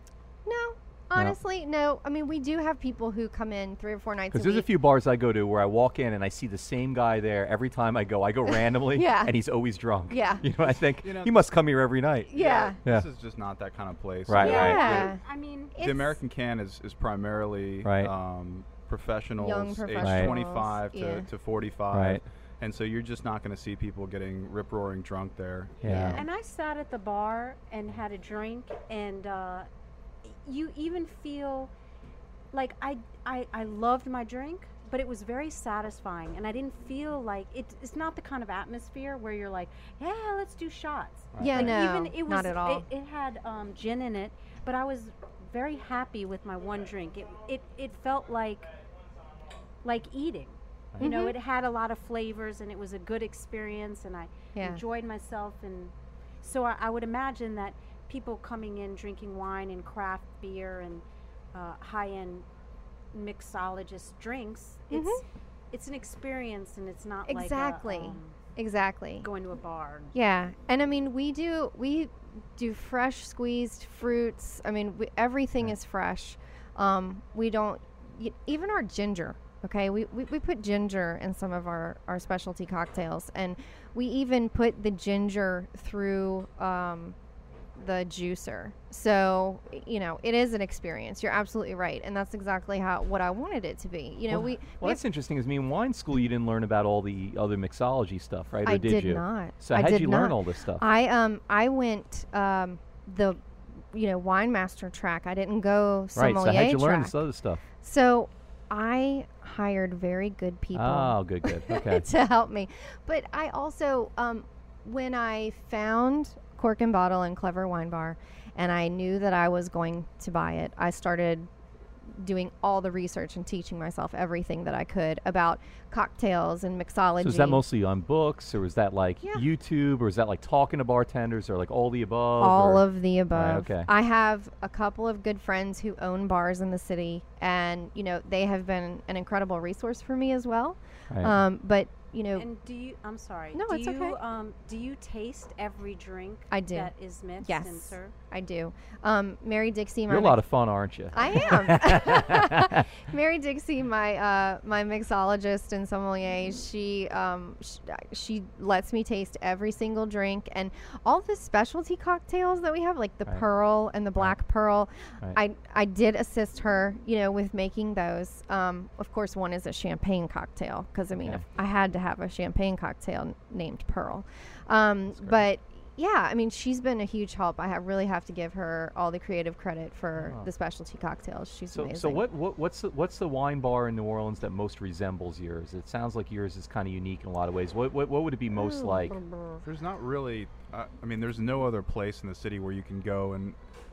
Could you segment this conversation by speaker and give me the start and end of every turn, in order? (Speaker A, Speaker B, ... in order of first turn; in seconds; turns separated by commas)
Speaker A: 0.4-4.7, Speaker B: 4.3-12.3, Speaker A: 8.6-9.3, Speaker A: 10.1-10.4, Speaker C: 11.0-11.5, Speaker A: 12.3-12.8, Speaker C: 12.3-15.1, Speaker B: 14.3-14.8, Speaker A: 14.3-15.2, Speaker D: 14.4-15.7, Speaker A: 15.7-16.2, Speaker C: 15.8-26.1, Speaker B: 17.8-18.1, Speaker A: 19.4-21.3, Speaker B: 20.0-20.3, Speaker B: 21.9-22.2, Speaker B: 25.8-26.2, Speaker A: 25.8-26.2, Speaker D: 26.1-29.7, Speaker D: 30.2-31.7, Speaker D: 32.5-48.7, Speaker B: 41.3-41.8, Speaker A: 41.4-42.9, Speaker D: 49.8-62.5, Speaker A: 51.0-51.3, Speaker A: 54.5-54.8, Speaker D: 63.1-68.4, Speaker A: 64.9-65.2, Speaker A: 67.3-69.3, Speaker D: 69.2-70.2, Speaker A: 70.1-87.1, Speaker A: 87.8-95.0, Speaker B: 94.3-100.8, Speaker A: 98.6-103.4, Speaker A: 103.9-107.2, Speaker B: 106.2-107.6, Speaker A: 107.8-121.5, Speaker B: 110.7-112.0, Speaker A: 122.2-127.6, Speaker B: 127.2-133.9, Speaker A: 132.4-142.4, Speaker B: 141.1-141.4, Speaker D: 142.3-148.1, Speaker A: 143.5-144.2, Speaker A: 146.5-150.5, Speaker B: 150.1-152.9, Speaker A: 151.1-182.2, Speaker B: 171.2-171.4, Speaker B: 175.1-175.4, Speaker B: 180.2-180.5, Speaker B: 181.7-189.2, Speaker A: 188.5-189.6, Speaker C: 189.6-193.6